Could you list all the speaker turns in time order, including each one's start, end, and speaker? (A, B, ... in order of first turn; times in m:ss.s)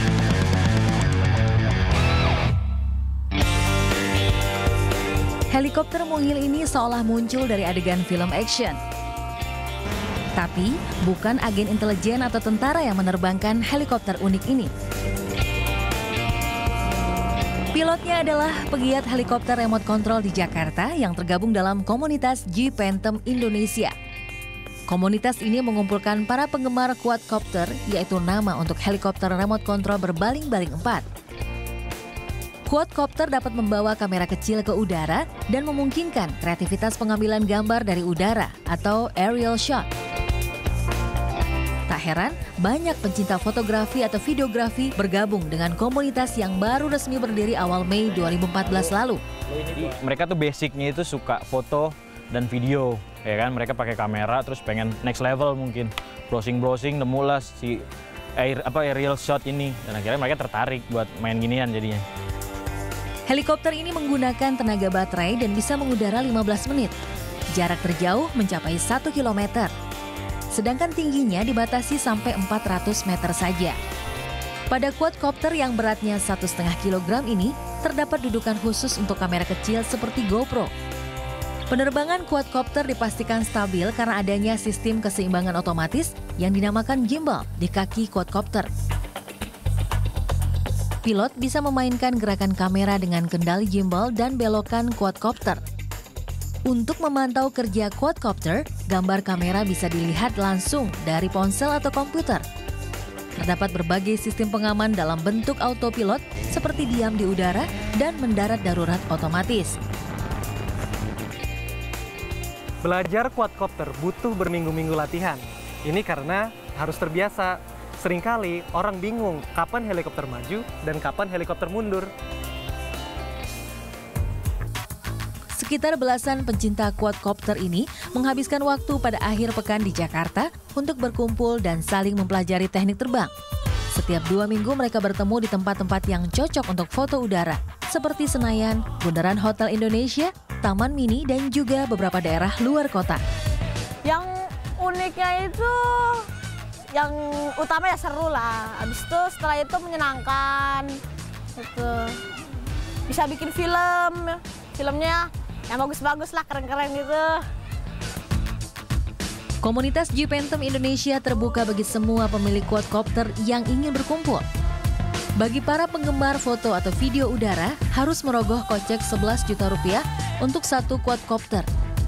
0:05.5-0:08.8 A
0:10.4-0:14.7 A
0:17.7-0:23.9 A
0:24.9-0:31.0 A
0:32.7-0:39.9 A
0:41.9-0:49.2 A
0:48.1-0:48.9 B
0:49.5-0:57.8 B
0:58.4-1:02.0 B
1:03.3-1:06.9 A
1:07.5-1:09.7 A
1:10.5-1:13.8 A
1:14.7-1:20.7 A
1:21.7-1:28.7 A
1:31.0-1:35.6 A
1:36.7-1:42.4 A
1:43.4-1:49.8 A
1:52.8-2:02.1 C
2:05.6-2:13.3 A
2:13.9-2:23.2 A
2:24.1-2:26.2 D
2:26.9-2:30.9 D
2:31.6-2:32.2 D
2:33.1-2:37.4 D
2:39.6-2:44.4 A
2:45.4-2:51.7 A